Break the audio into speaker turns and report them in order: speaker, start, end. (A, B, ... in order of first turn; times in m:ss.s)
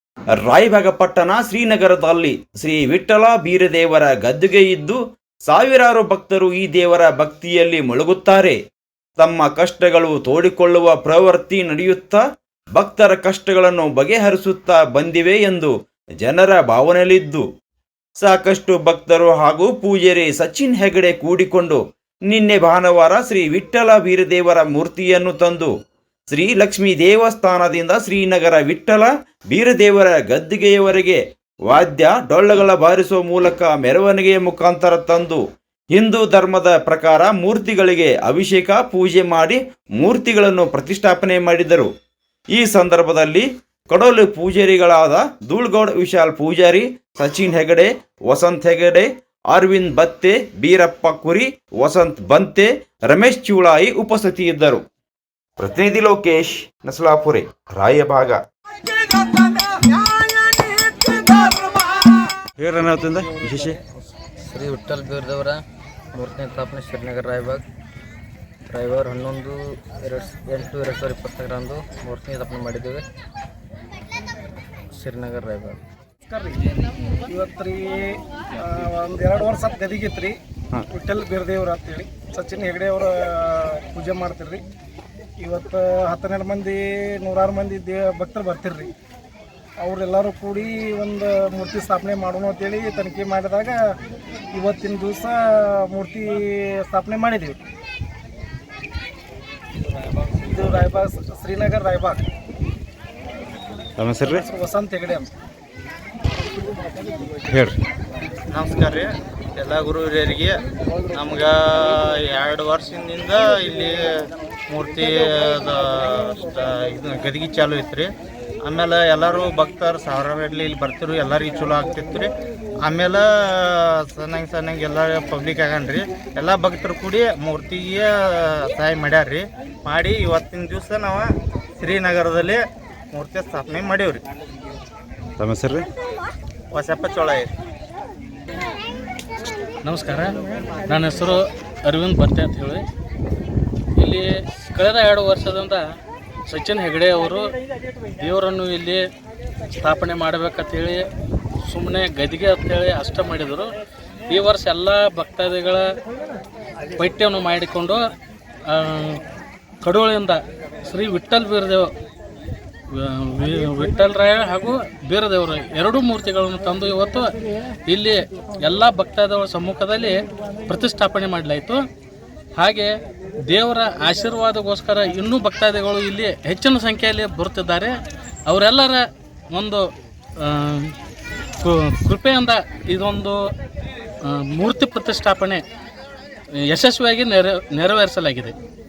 0:00.4-0:08.6 A
0:09.2-0:12.2 A
0:12.7-0:17.4 A
0:18.2-0:25.7 A
0:26.3-0:35.4 A
0:35.9-0:41.9 A
0:42.5-0:54.8 A
0:55.6-1:03.8 A
1:04.4-1:05.6 B
1:06.1-1:07.6 B
1:08.7-1:13.0 B
1:14.9-1:15.8 B
1:16.2-1:16.6 C
1:17.3-1:20.4 C
1:20.9-1:24.6 C
1:25.4-1:28.9 C
1:29.8-1:33.8 C
1:34.5-1:37.6 C
1:40.4-1:42.2 C
1:44.0-1:44.4 A
1:44.2-1:45.3 C
1:47.5-1:47.8 A
1:48.5-1:50.6 D
1:51.1-1:58.1 D
1:58.6-2:02.3 D
2:02.8-2:14.2 D
2:15.4-2:15.8 A
2:16.7-2:17.5 D
2:19.8-2:22.8 E
2:24.0-2:25.8 E
2:26.5-2:27.5 E
2:28.2-2:29.0 E
2:29.8-2:31.0 E
2:31.6-2:33.7 E
2:34.3-2:35.8 E
2:37.0-2:38.0 E
2:38.6-2:39.2 E
2:39.8-2:41.9 E
2:42.9-2:47.3 E
2:47.9-2:51.8 E
2:52.6-2:53.0 E
2:53.5-3:00.9 E
3:01.6-3:03.4 E
3:04.2-3:05.6 E
3:06.6-3:08.5 E